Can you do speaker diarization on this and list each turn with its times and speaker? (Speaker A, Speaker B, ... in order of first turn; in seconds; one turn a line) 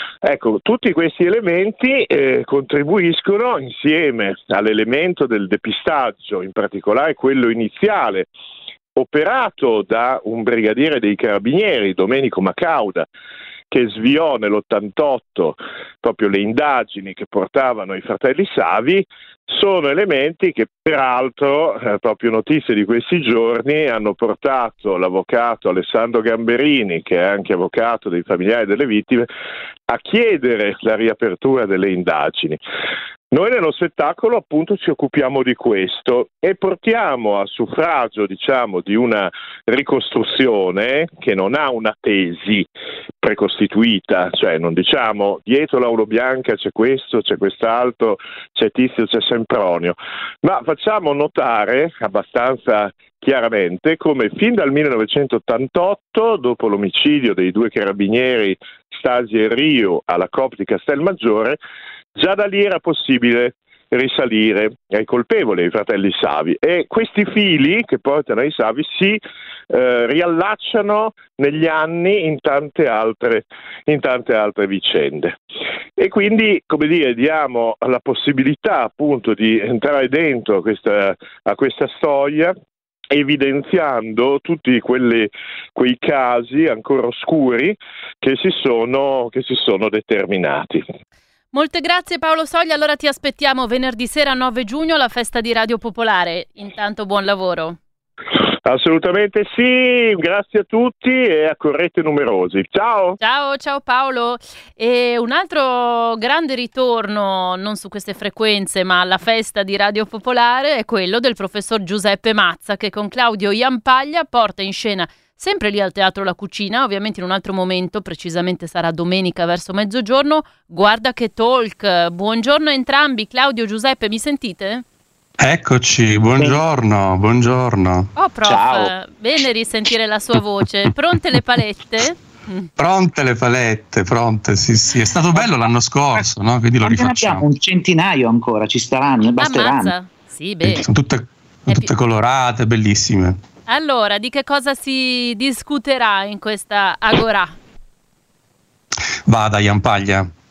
Speaker A: 0.2-8.3
Speaker A: 8.9-13.0
Speaker A: 13.7-29.3
Speaker A: 29.9-32.6
Speaker A: 33.3-42.6
Speaker A: 43.2-61.6
Speaker A: 62.1-69.2
Speaker A: 69.7-75.3
Speaker A: 76.0-82.5
Speaker A: 83.1-90.8
Speaker B: 91.5-97.8
Speaker A: 98.7-103.2
Speaker B: 103.2-124.8
Speaker C: 125.4-128.1
Speaker D: 126.4-126.6
Speaker B: 128.2-132.7
Speaker D: 128.4-128.9
Speaker C: 132.8-137.5
Speaker D: 135.3-136.3
Speaker D: 136.8-139.9
Speaker B: 139.4-140.8
Speaker C: 140.6-143.4
Speaker B: 143.7-147.6
Speaker C: 149.3-150.3